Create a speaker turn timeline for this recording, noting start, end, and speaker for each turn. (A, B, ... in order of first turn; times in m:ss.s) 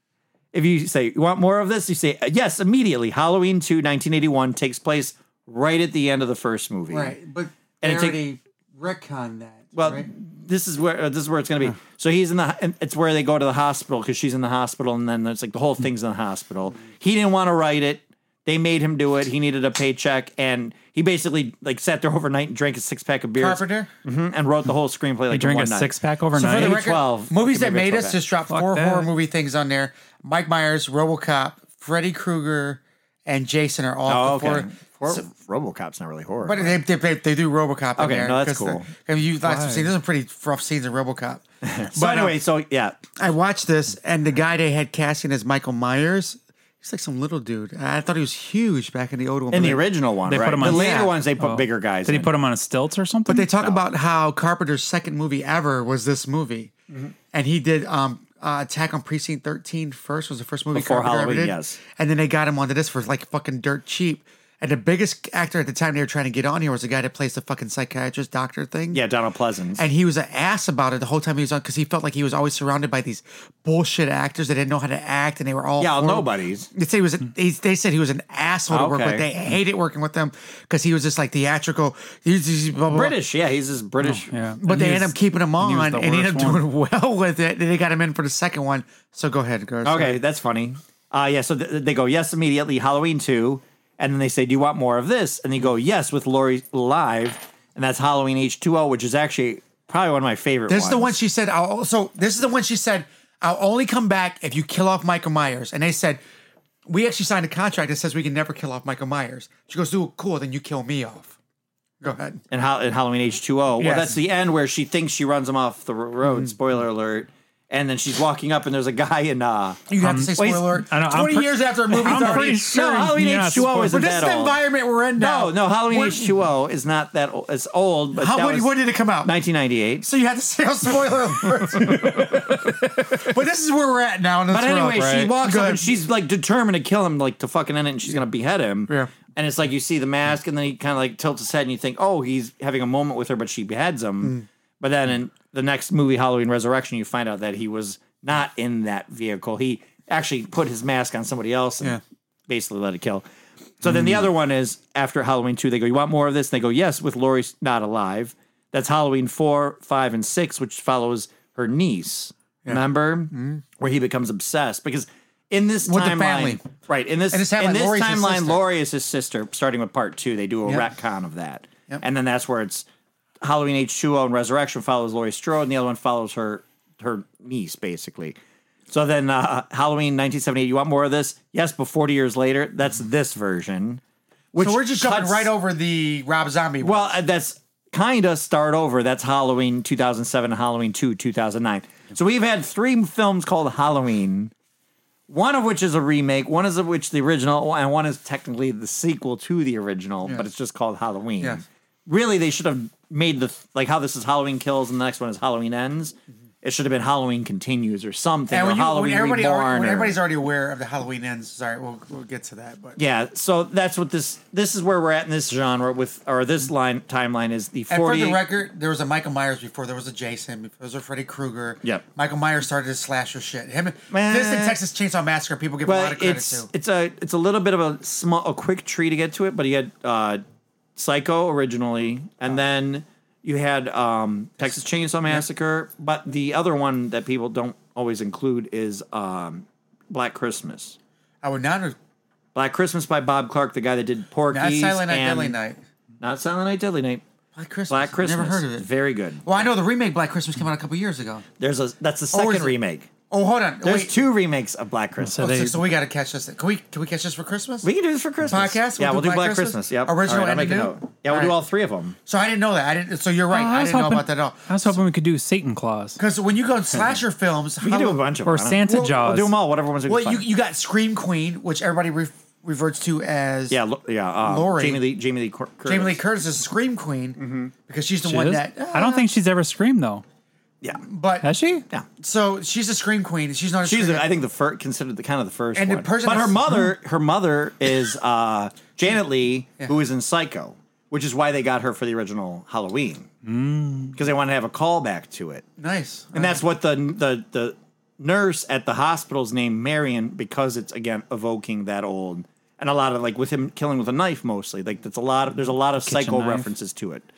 0:00.5-0:07.1 A
0:06.9-0:10.1 B
0:07.8-0:08.2 A
0:09.7-0:28.2 A
0:23.4-0:23.9 B
0:25.3-0:26.9 C
0:26.3-0:35.2 B
0:28.5-0:29.1 C
0:34.1-0:36.8 A
0:36.4-0:42.4 B
0:38.0-0:38.9 A
0:39.4-0:39.9 C
0:41.6-0:43.0 A
0:43.2-0:49.8 B
0:49.5-0:52.3 A
0:50.3-0:53.7 C
0:50.6-0:51.1 B
0:53.3-0:56.7 B
0:57.3-1:09.0 B
1:00.7-1:01.8 A
1:08.9-1:09.8 A
1:09.8-1:23.1 B
1:15.8-1:16.7 A
1:18.7-1:19.3 A
1:22.9-1:24.3 A
1:24.0-1:26.6 C
1:24.6-1:30.2 B
1:29.8-1:41.2 A
1:40.7-1:46.2 B
1:46.8-1:51.4 B
1:52.0-1:52.4 B
1:52.5-2:00.6 A
1:53.8-1:54.2 B
1:59.9-2:02.6 B
2:00.0-2:03.9 C
2:02.0-2:04.6 A
2:03.7-2:06.3 B
2:05.2-2:10.1 A
2:08.1-2:09.3 B
2:10.0-2:15.9 B
2:14.5-2:33.2 A
2:14.9-2:15.3 C
2:33.8-2:52.8 A
2:42.6-2:43.6 B
2:45.8-2:46.6 B
2:47.3-2:48.6 B
2:53.4-2:58.4 A
2:58.9-3:04.0 A
3:04.5-3:05.5 A
3:04.6-3:07.2 B
3:06.8-3:14.5 A
3:15.3-3:30.2 A
3:28.5-3:33.0 B
3:33.0-3:38.4 A
3:37.9-3:46.7 B
3:44.1-3:44.8 A
3:45.8-3:50.4 A
3:51.0-4:01.0 A
4:01.4-4:02.0 B
4:02.5-4:05.6 A
4:04.5-4:05.8 B
4:06.2-4:07.2 A
4:07.5-4:08.9 B
4:07.9-4:09.5 A
4:09.4-4:11.4 B
4:11.6-4:13.1 A
4:12.3-4:12.8 B
4:13.3-4:14.2 B
4:13.8-4:15.5 A
4:15.2-4:15.8 C
4:15.4-4:17.9 B
4:17.8-4:22.2 A
4:18.4-4:21.5 B
4:22.2-4:25.0 B
4:23.5-4:26.2 C
4:26.2-4:28.2 B
4:27.8-4:30.4 A
4:28.4-4:29.5 C
4:28.9-4:29.3 B
4:30.0-4:33.8 B
4:33.7-4:36.2 A
4:34.4-4:35.0 B
4:35.8-4:39.3 B
4:37.4-4:37.7 A
4:38.2-4:40.2 C
4:41.0-4:41.5 B
4:41.4-4:41.8 C
4:42.2-4:44.3 B
4:43.8-4:53.3 A
4:45.7-4:46.7 B
4:53.4-4:54.2 C
4:54.1-4:55.6 A
4:55.8-4:56.6 B
4:56.3-5:07.2 A
5:06.1-5:06.7 C